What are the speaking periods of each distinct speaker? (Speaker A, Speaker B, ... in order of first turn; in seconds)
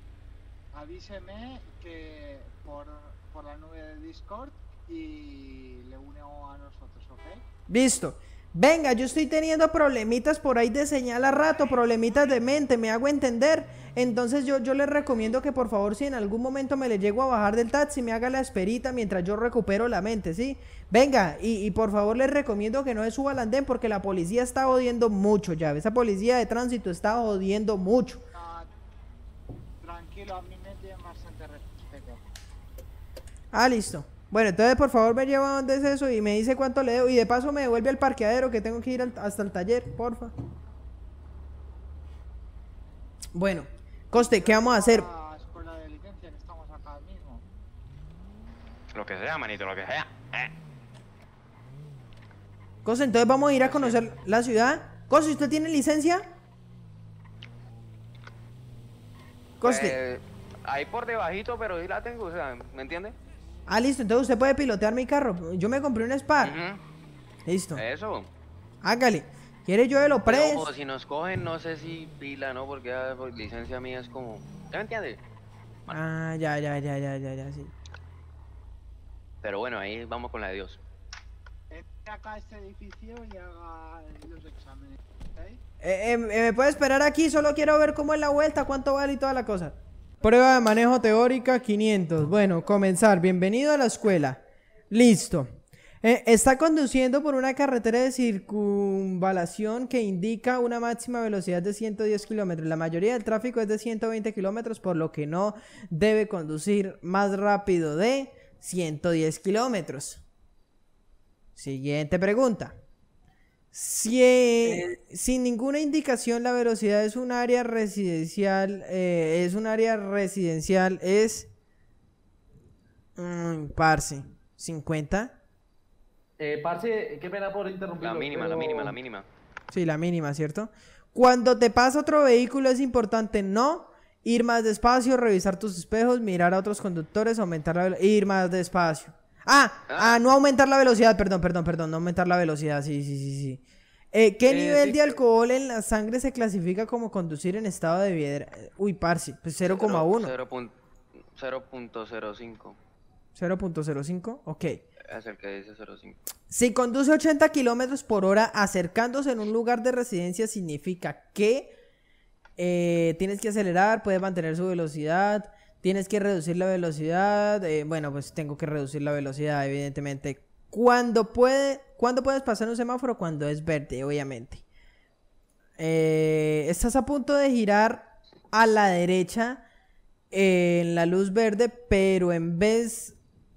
Speaker A: 0.7-7.4, 28.3-28.7, 29.8-32.2, 44.1-47.4, 81.7-85.6
Speaker B: 7.7-28.2, 33.5-40.3, 43.3-45.1, 52.9-56.2, 59.6-60.0, 63.7-66.6, 67.5-67.8, 68.8-70.7, 75.9-77.7, 85.8-110.2, 111.6-112.8, 113.7-121.5, 123.2-125.4, 129.7-143.6, 144.1-150.3, 153.4-154.8, 156.5-161.8, 162.6-174.6, 175.8-179.6, 180.3-183.2
Speaker C: 48.9-50.5, 53.6-54.0, 59.6-63.2, 66.4-66.8, 67.7-68.3, 70.2-75.2, 79.4-80.8, 128.0-129.3, 139.9-140.2, 144.5-145.0, 149.6-150.8, 151.3-152.8, 155.0-156.2
Speaker D: 126.4-129.0